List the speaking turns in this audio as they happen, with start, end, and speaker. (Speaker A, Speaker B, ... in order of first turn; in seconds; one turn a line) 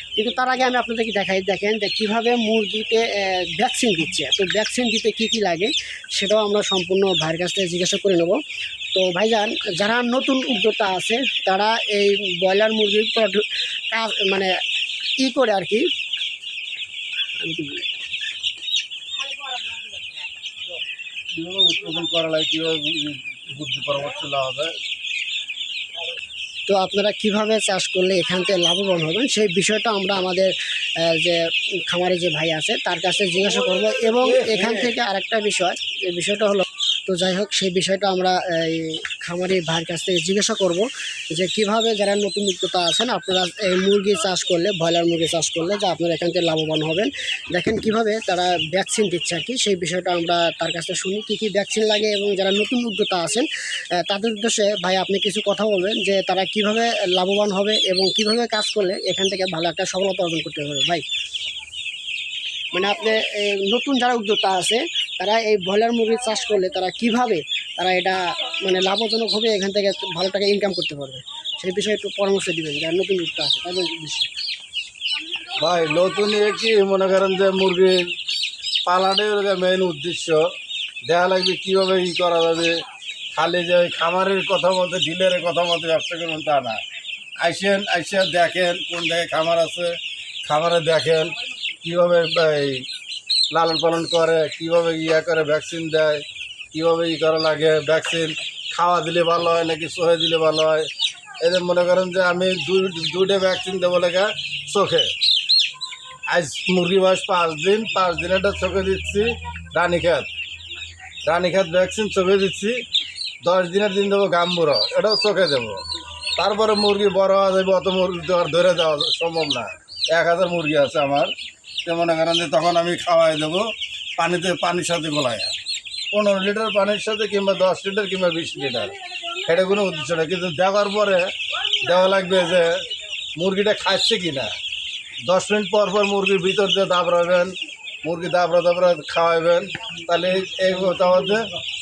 Speaker A: 0.2-8.4
Speaker A: 8.9-14.5
Speaker A: 15.2-15.9
Speaker A: 17.4-17.9
Speaker B: 21.3-24.8
Speaker A: 26.7-61.0
Speaker B: 33.4-35.0
Speaker A: 62.7-74.3
Speaker B: 75.6-78.1
Speaker B: 78.9-80.5
Speaker B: 81.0-82.8
Speaker B: 83.3-86.8
Speaker B: 87.4-92.9
Speaker B: 93.5-100.9
Speaker B: 101.4-105.1
Speaker B: 106.3-110.3
Speaker B: 111.3-112.8
Speaker B: 113.4-115.8
Speaker B: 116.4-121.3
Speaker B: 121.8-125.6
Speaker B: 126.1-128.9
Speaker B: 129.4-132.8
Speaker B: 133.4-134.5
Speaker B: 135.3-141.5